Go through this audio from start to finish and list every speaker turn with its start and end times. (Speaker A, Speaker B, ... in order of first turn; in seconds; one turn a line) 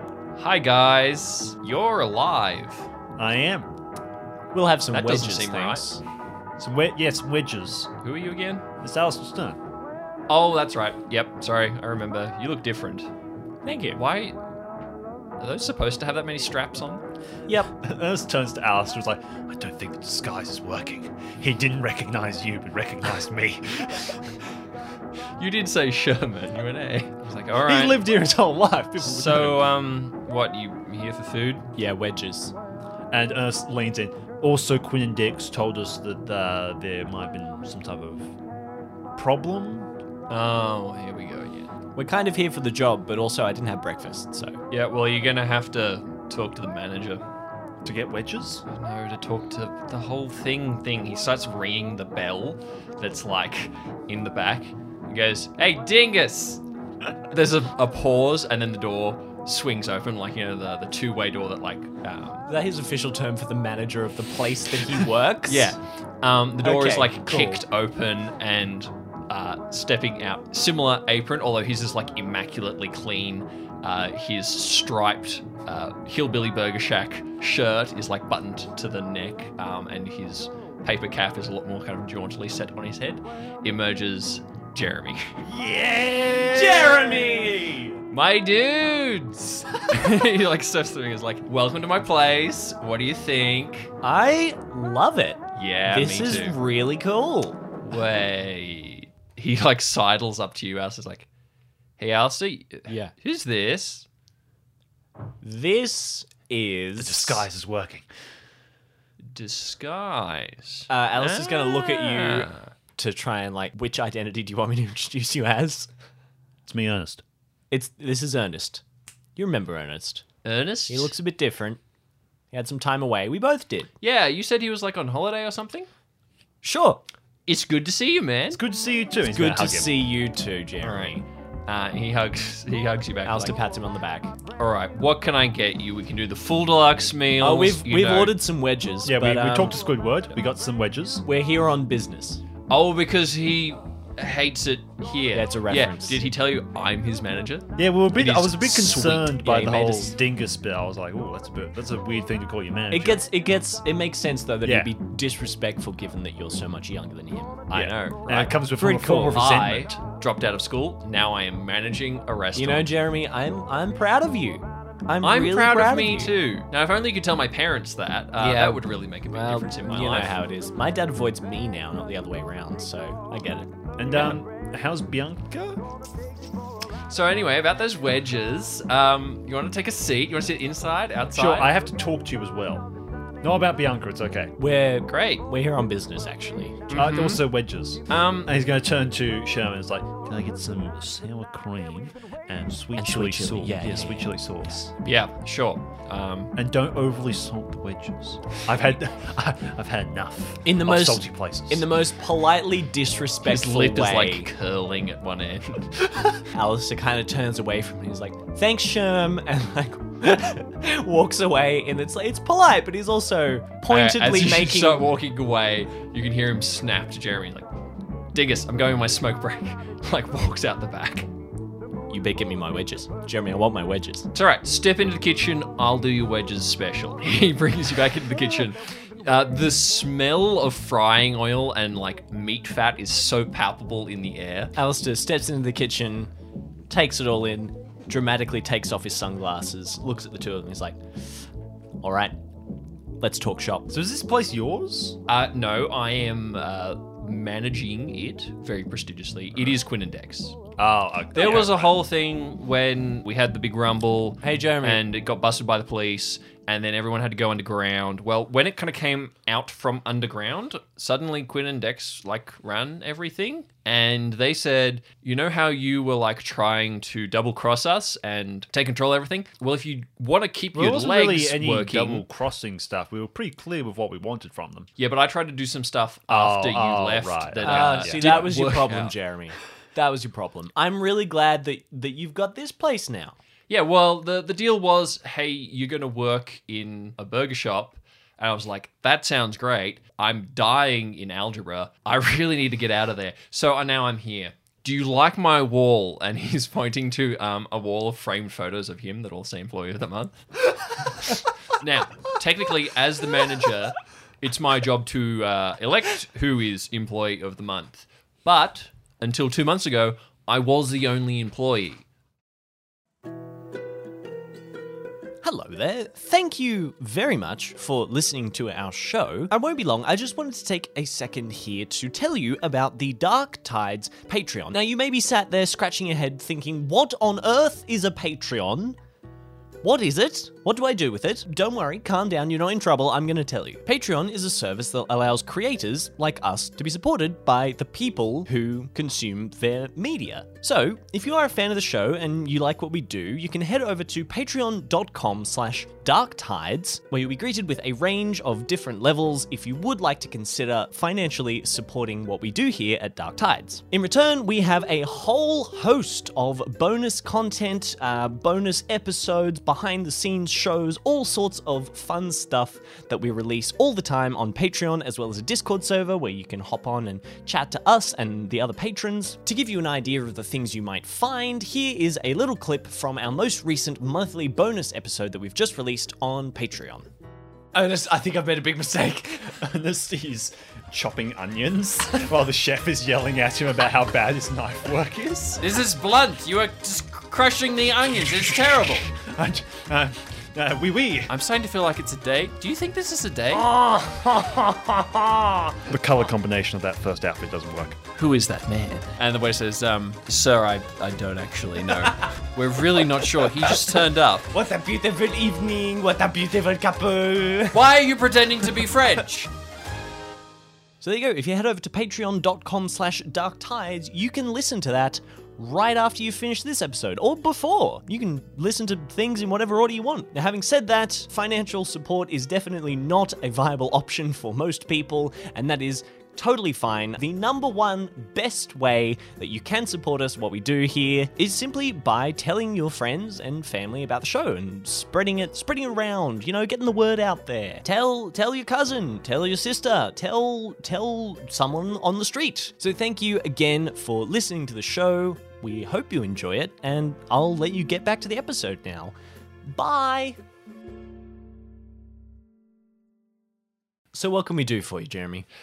Speaker A: 0.3-2.9
Speaker B: 3.2-3.7
Speaker C: 4.5-6.0
Speaker A: 4.9-5.8
Speaker B: 6.6-7.9
Speaker A: 8.0-8.6
Speaker B: 8.8-9.6
Speaker A: 10.3-13.1
Speaker C: 13.6-14.0
Speaker A: 13.9-14.4
Speaker A: 15.4-17.0
Speaker B: 17.8-24.4
Speaker A: 25.4-28.0
Speaker B: 27.6-29.7
Speaker A: 29.0-31.7
Speaker C: 31.8-32.5
Speaker B: 33.1-38.3
Speaker B: 39.1-39.9
Speaker A: 40.3-41.7
Speaker C: 41.9-44.6
Speaker A: 44.7-47.2
Speaker B: 47.8-48.6
Speaker A: 48.7-56.6
Speaker A: 57.3-62.5
Speaker C: 62.5-65.7
Speaker A: 65.5-85.3
Speaker C: 66.6-67.6
Speaker B: 85.4-87.5
Speaker C: 86.5-88.0
Speaker A: 88.1-93.9
Speaker C: 94.0-97.6
Speaker A: 95.5-96.6
Speaker A: 97.8-101.3
Speaker A: 102.0-104.0
Speaker C: 105.4-107.5
Speaker B: 107.0-108.0
Speaker A: 109.3-112.7
Speaker C: 110.9-115.9
Speaker B: 116.7-117.2
Speaker C: 117.7-118.8
Speaker C: 119.3-120.2
Speaker A: 120.4-121.1
Speaker C: 120.9-121.8
Speaker C: 122.5-123.9
Speaker A: 124.0-125.9
Speaker C: 126.6-127.0
Speaker A: 127.5-128.6
Speaker B: 128.5-129.9
Speaker C: 129.2-131.2
Speaker A: 130.8-133.6
Speaker C: 133.2-134.3
Speaker A: 134.6-138.4
Speaker C: 137.4-139.8
Speaker B: 139.0-141.2
Speaker C: 141.2-142.4
Speaker A: 142.7-149.4
Speaker C: 145.3-146.2
Speaker B: 147.8-153.2
Speaker C: 149.4-150.1
Speaker C: 152.9-157.6
Speaker B: 154.6-154.9
Speaker A: 157.7-162.9
Speaker B: 157.7-160.0
Speaker C: 158.8-159.4
Speaker C: 162.5-166.3
Speaker A: 165.2-170.3
Speaker C: 168.4-173.7
Speaker B: 174.0-175.8
Speaker A: 177.1-181.7
Speaker B: 181.3-182.9
Speaker B: 183.4-184.5
Speaker C: 184.6-186.9
Speaker A: 185.1-185.4
Speaker A: 186.9-187.4
Speaker B: 186.9-194.9
Speaker A: 188.1-188.5
Speaker C: 192.9-194.3
Speaker A: 195.0-196.5
Speaker B: 196.5-201.9
Speaker C: 200.6-204.5
Speaker A: 203.4-206.3
Speaker C: 206.4-215.1
Speaker A: 213.9-217.7
Speaker A: 218.3-221.3
Speaker C: 222.1-224.3
Speaker A: 224.3-234.7
Speaker C: 234.8-236.3
Speaker C: 236.9-241.0
Speaker C: 242.0-242.3
Speaker C: 243.2-243.9
Speaker B: 243.9-245.2
Speaker A: 245.3-250.6
Speaker B: 250.8-251.9
Speaker A: 251.3-272.2
Speaker C: 254.4-255.0
Speaker B: 270.7-274.9
Speaker A: 275.0-279.1
Speaker B: 276.3-278.6
Speaker C: 277.6-283.4
Speaker A: 283.7-300.4
Speaker A: 301.0-312.0
Speaker C: 315.4-329.0
Speaker C: 329.8-377.1
Speaker C: 377.7-379.6
Speaker B: 379.6-385.6
Speaker A: 385.6-389.1
Speaker B: 389.1-391.3
Speaker A: 391.3-393.7
Speaker C: 393.5-395.8
Speaker B: 395.9-398.0
Speaker A: 398.1-404.5
Speaker C: 402.0-402.3
Speaker C: 403.2-403.9
Speaker C: 404.5-407.8
Speaker A: 407.7-409.5
Speaker C: 411.0-449.1
Speaker C: 449.6-450.4
Speaker C: 454.1-455.4